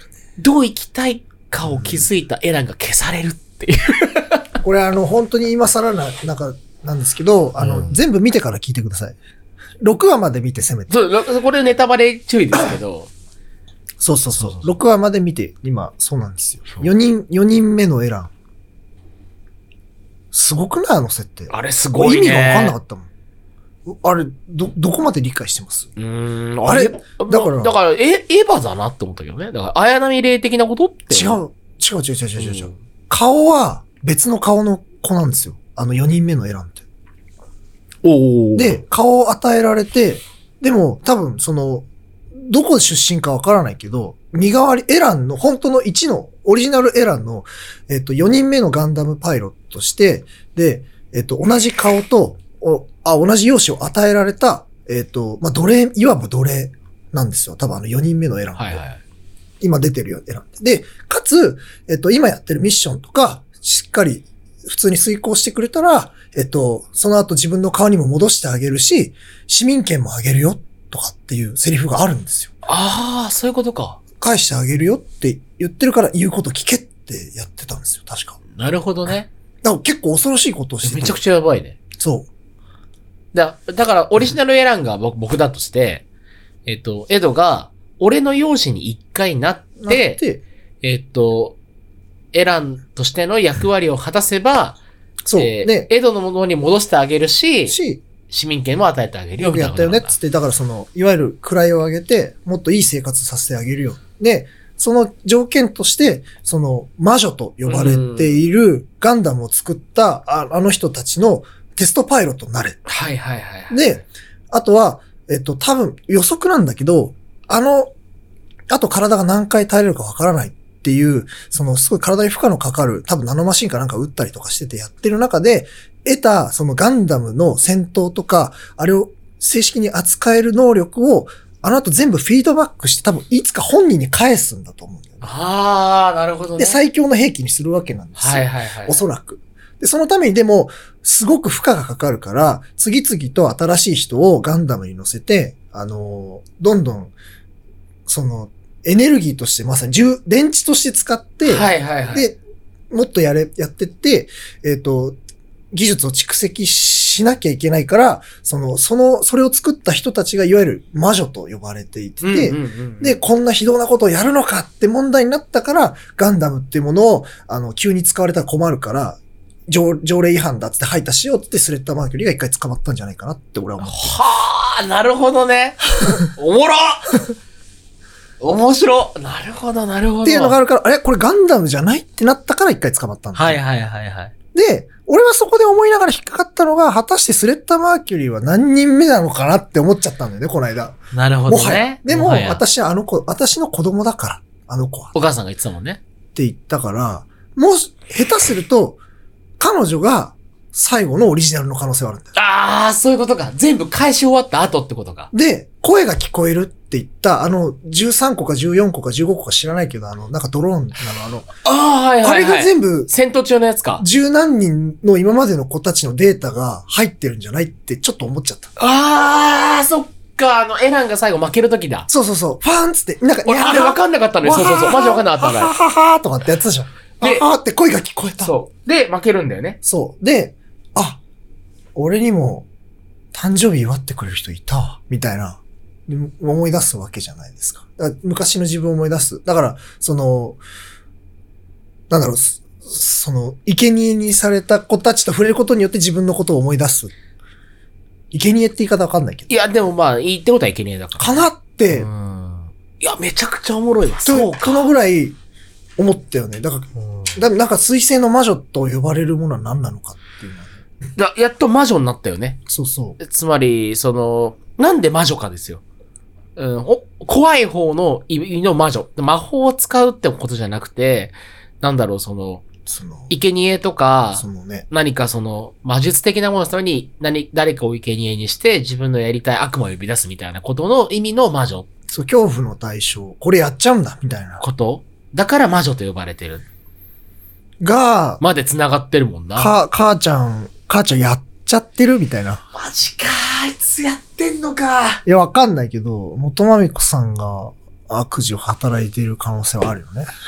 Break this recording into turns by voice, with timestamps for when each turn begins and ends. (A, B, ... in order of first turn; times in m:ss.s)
0:00.4-0:04.5 A
0:01.6-0:02.1 B
0:04.6-0:09.2 B
0:07.6-0:08.0 A
0:09.8-0:10.9 B
0:10.9-0:13.1 A
0:14.0-0:18.3 B
0:14.4-0:14.7 A
0:20.3-0:23.1 B
0:21.5-0:22.8 A
0:23.8-0:25.9 B
0:26.0-0:31.4 A
0:26.6-0:27.7 B
0:31.1-0:36.8 B
0:32.4-0:32.8 A
0:38.0-0:38.8 A
0:38.6-0:58.8 B
0:58.6-0:59.0 A
0:59.6-1:12.5 B
1:12.6-1:14.0 A
1:14.2-1:18.4 B
1:18.5-1:19.3 A
1:19.6-1:21.2 B
1:20.8-1:21.8 A
1:22.0-1:22.3 B
1:23.3-1:26.0 A
1:26.7-1:30.2 A
1:29.8-1:30.4 B
1:30.8-1:31.6 A
1:32.3-1:34.8 A
1:35.2-1:35.9 B
1:35.4-1:40.2 A
1:37.7-1:38.0 B
1:39.4-1:52.8 B
1:47.7-1:48.4 A
1:52.9-1:53.8 A
1:53.7-1:57.9 B
1:58.7-2:15.2 B
2:15.2-2:16.8 A
2:16.6-2:27.1 B
2:18.2-2:19.0 A
2:28.1-2:32.4 B
2:31.4-2:32.3 A
2:32.9-2:35.2 B
2:35.7-2:54.2 B
2:42.2-2:43.2 A
2:53.8-2:57.2 A
2:58.4-3:00.6 A
3:00.2-3:03.6 B
3:03.3-3:04.3 A
3:04.5-3:15.1 B
3:11.1-3:12.6 A
3:15.1-3:16.0 A
3:16.3-3:19.0 B
3:19.6-3:22.3 B
3:22.3-3:25.3 A
3:25.3-3:31.5 B
3:31.6-3:34.0 A
3:32.2-3:33.1 B
3:34.0-3:38.7 B
3:38.8-3:42.1 A
3:42.1-3:48.5 B
3:43.4-3:45.7 A
3:47.2-3:47.5 A
3:48.4-3:49.8 A
3:49.8-3:51.2 B
3:51.9-3:52.6 B
3:53.3-4:00.6 B
4:02.1-4:07.1 B
4:08.3-4:09.5 B
4:09.5-4:14.9 A
4:11.2-4:12.1 B
4:14.2-4:15.4 B
4:16.0-4:20.8 B
4:17.0-4:17.4 A
4:21.2-4:22.6 A
4:22.7-4:23.2 B
4:23.2-4:25.8 A
4:26.6-4:32.6 A
4:32.8-4:33.3 B
4:33.3-4:41.9 A
4:34.4-4:34.8 B
4:42.1-4:44.6 B
4:44.6-4:46.6 A
4:47.8-4:48.4 B
4:48.4-4:49.8 A
4:49.6-4:52.6 B
4:52.7-4:55.2 A
4:55.2-5:00.3 B